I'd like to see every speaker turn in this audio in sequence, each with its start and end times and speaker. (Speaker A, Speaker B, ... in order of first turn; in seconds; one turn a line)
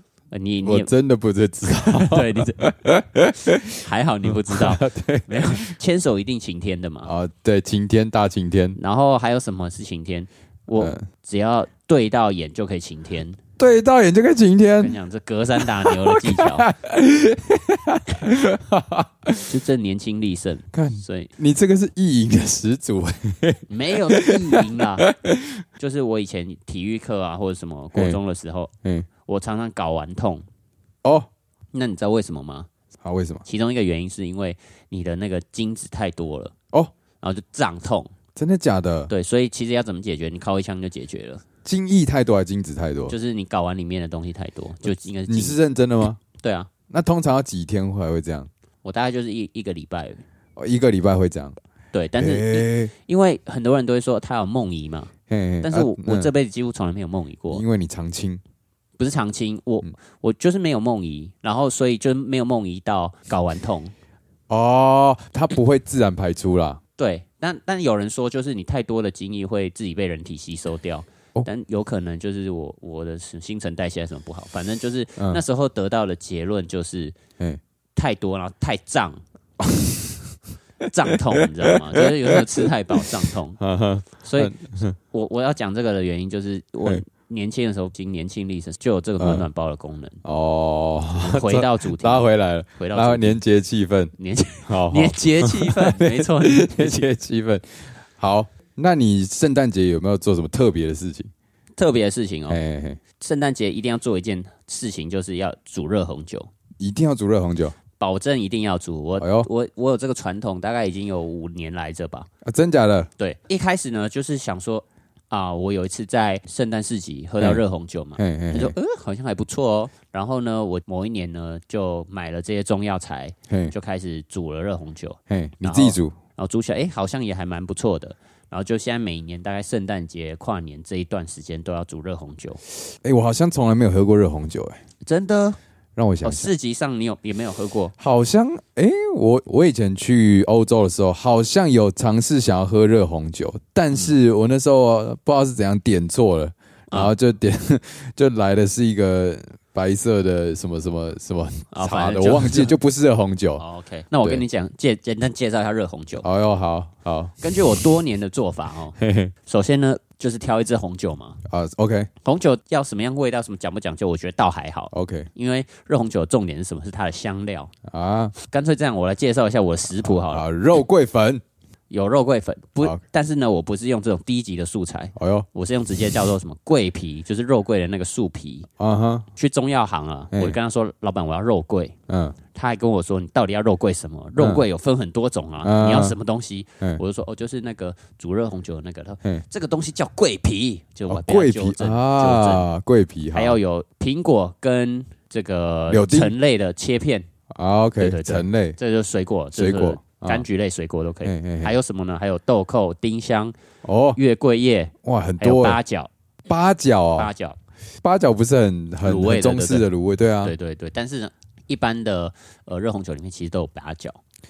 Speaker A: 0.3-0.9
Speaker B: 0.6-5.7
Speaker A: 1.7-2.6
Speaker A: 3.8-7.1
Speaker B: 7.0-8.8
Speaker A: 8.8-13.4
Speaker B: 10.8-11.1
Speaker B: 13.6-15.0
Speaker A: 14.8-16.6
Speaker B: 15.6-19.5
Speaker A: 19.5-21.3
Speaker B: 20.7-25.6
Speaker A: 23.7-25.1
Speaker A: 25.8-28.7
Speaker B: 27.9-28.2
Speaker A: 29.3-30.4
Speaker A: 31.7-32.7
Speaker B: 33.0-33.4
Speaker A: 33.5-36.5
Speaker A: 37.2-38.1
Speaker B: 38.4-39.1
Speaker A: 39.1-41.5
Speaker B: 41.6-43.1
Speaker A: 43.1-45.6
Speaker B: 45.3-46.2
Speaker A: 46.4-46.7
Speaker B: 46.9-48.5
Speaker A: 48.8-50.2
Speaker B: 50.6-51.6
Speaker A: 51.9-55.1
Speaker B: 52.2-52.9
Speaker B: 55.3-56.3
Speaker A: 55.6-57.6
Speaker B: 57.5-58.4
Speaker A: 59.0-63.9
Speaker B: 64.5-66.8
Speaker A: 67.0-77.2
Speaker A: 78.0-79.2
Speaker B: 79.6-80.2
Speaker A: 80.9-83.6
Speaker B: 81.1-83.1
Speaker B: 83.6-85.0
Speaker A: 84.2-84.5
Speaker A: 85.1-90.2
Speaker B: 89.2-89.5
Speaker B: 90.2-94.1
Speaker A: 91.2-92.3
Speaker A: 92.8-93.4
Speaker A: 94.2-97.0
Speaker B: 94.7-97.7
Speaker B: 98.2-101.3
Speaker A: 101.8-102.6
Speaker B: 102.5-103.0
Speaker A: 103.2-106.5
Speaker B: 106.8-107.8
Speaker A: 108.0-112.3
Speaker B: 109.2-109.5
Speaker B: 112.4-113.1
Speaker A: 113.2-132.6
Speaker B: 118.2-118.7
Speaker B: 125.3-126.2
Speaker B: 133.0-134.8
Speaker A: 135.1-135.6
Speaker B: 136.0-136.5
Speaker A: 136.2-137.9
Speaker B: 138.0-153.6
Speaker A: 151.7-152.8
Speaker A: 153.6-156.2
Speaker B: 156.2-157.4
Speaker A: 157.4-161.4
Speaker B: 159.0-159.3
Speaker B: 161.5-162.1
Speaker A: 162.2-167.7
Speaker B: 164.9-165.3
Speaker B: 167.8-168.3
Speaker A: 168.4-170.4
Speaker B: 170.0-171.4
Speaker A: 171.9-178.7
Speaker B: 175.2-175.5
Speaker B: 178.8-179.3
Speaker A: 179.4-181.9
Speaker B: 182.1-182.4
Speaker A: 182.5-192.7
Speaker B: 185.6-186.2
Speaker B: 191.1-193.6
Speaker A: 193.3-197.3
Speaker B: 195.9-196.3
Speaker B: 197.5-198.8
Speaker A: 198.0-203.5
Speaker B: 199.6-200.5
Speaker B: 201.2-201.7
Speaker B: 203.8-204.2
Speaker A: 204.2-206.1
Speaker B: 205.0-205.8
Speaker B: 206.5-207.3
Speaker A: 207.2-207.6
Speaker B: 208.0-210.6
Speaker A: 209.0-209.9
Speaker A: 210.4-214.2